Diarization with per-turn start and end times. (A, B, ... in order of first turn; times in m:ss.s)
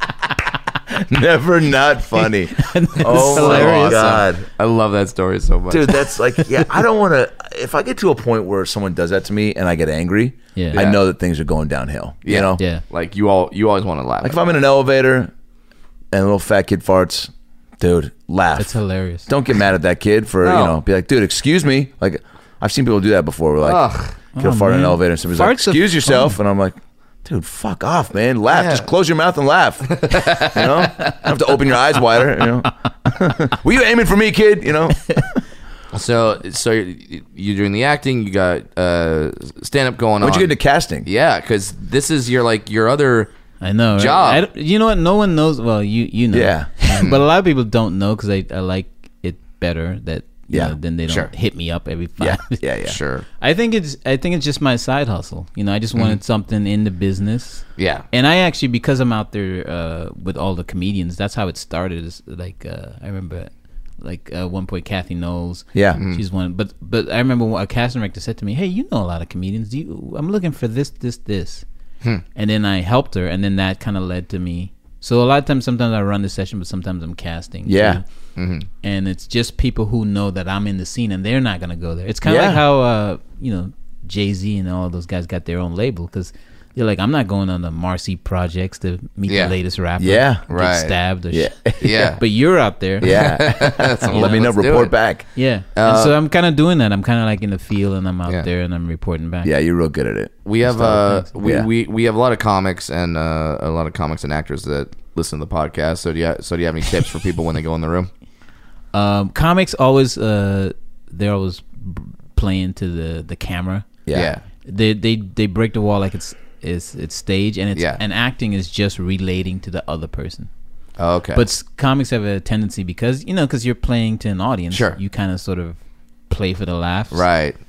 0:01.1-0:04.4 A
0:02.5-0:04.1 B
0:03.0-0:06.0 C
0:05.7-0:12.6 A
0:10.5-0:10.8 B
0:10.7-0:11.0 C
0:12.2-0:14.4 C
0:12.6-0:12.8 B
0:14.2-0:15.3 A
0:16.1-0:18.8 A
0:18.6-0:19.3 B
0:19.3-0:35.4 A
0:20.4-0:20.8 C
0:23.6-0:24.2 C
0:24.3-0:26.4 B
0:28.5-0:28.9 C
0:29.9-0:31.1 C
0:35.9-0:40.5 C
0:40.2-0:41.1 A
0:41.0-0:43.3 C
0:43.6-0:52.6 B
0:44.0-0:44.4 C
0:46.3-0:46.7 A
0:46.9-0:47.2 C
0:50.5-0:50.8 A
0:51.1-0:51.3 C
0:52.2-0:53.0 A
0:52.8-0:53.2 C
0:53.4-1:03.5 B
0:57.8-0:58.0 C
1:04.0-1:11.6 B
1:05.7-1:06.0 A
1:06.0-1:06.2 C
1:12.3-1:18.0 B
1:17.6-1:18.0 A
1:18.4-1:18.7 C
1:18.8-1:33.3 B
1:22.2-1:22.6 A
1:29.3-1:29.6 C
1:30.0-1:30.4 A
1:30.5-1:31.0 C
1:31.3-1:32.1 A
1:31.8-1:32.2 C
1:33.0-1:34.9 C
1:33.0-1:35.3 A
1:34.1-1:34.5 B
1:35.3-1:39.5 B
1:35.7-1:36.2 C
1:39.4-1:41.7 A
1:40.4-1:48.1 C
1:40.6-1:41.3 B
1:48.9-1:53.9 B
1:54.0-1:54.3 A
1:54.1-1:54.4 C
1:54.6-2:00.5 B
1:57.8-1:58.0 C
2:01.0-2:01.4 C
2:01.3-2:07.2 B
2:04.7-2:05.0 C
2:07.1-2:07.6 C